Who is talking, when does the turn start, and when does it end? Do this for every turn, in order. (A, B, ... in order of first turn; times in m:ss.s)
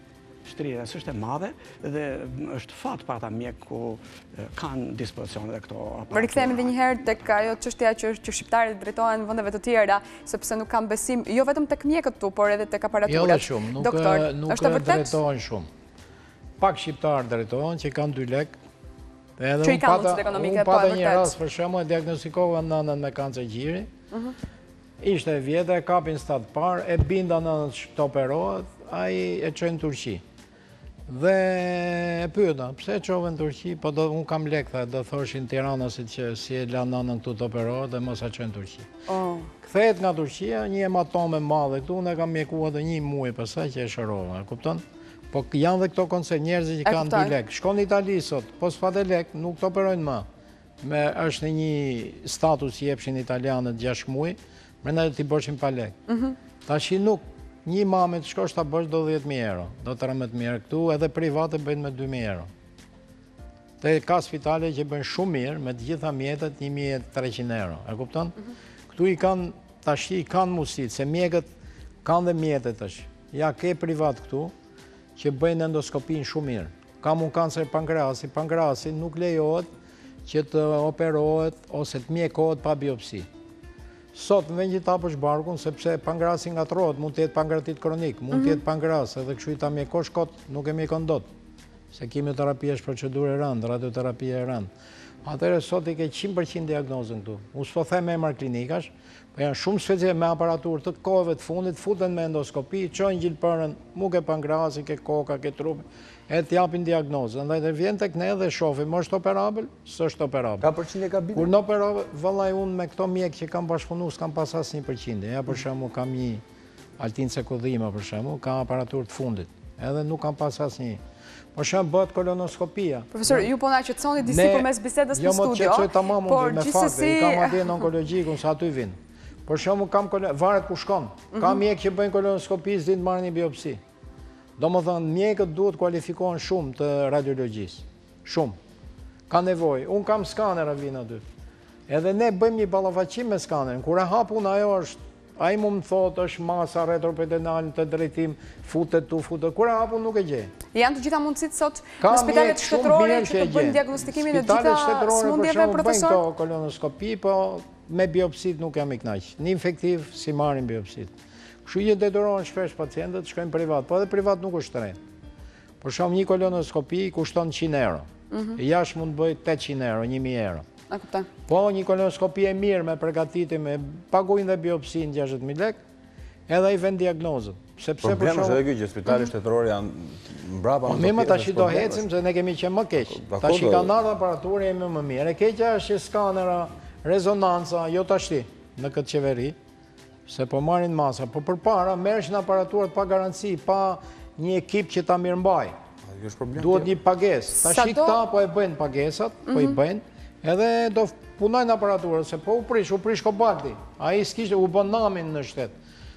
0:00.4-0:06.7 A
0:06.1-0:15.2 B
0:13.0-0:15.7 C
0:16.6-0:18.5 C
0:19.4-0:23.9 C
0:19.6-0:21.3 B
0:25.0-0:30.2 C
0:31.1-0:38.9 C
0:39.1-0:39.5 B
0:39.6-0:50.3 C
0:46.8-0:47.3 B
0:50.8-0:56.0 C
0:56.1-0:56.4 B
0:56.6-1:02.5 C
1:03.8-1:08.3 C
1:08.9-1:11.5 C
1:12.0-1:14.5 C
1:15.2-1:19.7 C
1:20.2-1:23.3 C
1:24.1-1:31.3 C
1:31.9-1:34.7 C
1:35.2-1:50.7 C
1:50.6-1:51.5 D
1:51.3-1:56.4 C
1:57.0-2:01.0 C
2:01.5-2:03.5 C
2:03.1-2:07.8 B
2:04.2-2:13.8 C
2:14.6-2:18.6 C
2:19.3-2:21.2 C
2:21.9-2:30.5 C
2:30.7-2:36.2 B
2:32.0-2:41.1 C
2:41.6-2:45.0 C
2:45.8-2:50.6 C
2:48.3-2:48.6 B
2:50.9-2:51.3 B
2:51.5-2:55.8 C
2:56.5-2:58.6 C
2:58.0-3:02.0 D
3:00.8-3:09.6 C
3:03.2-3:03.9 D
3:10.3-3:15.7 C
3:16.1-3:16.9 D
3:16.6-3:25.7 C
3:17.6-3:18.2 B
3:19.5-3:19.7 B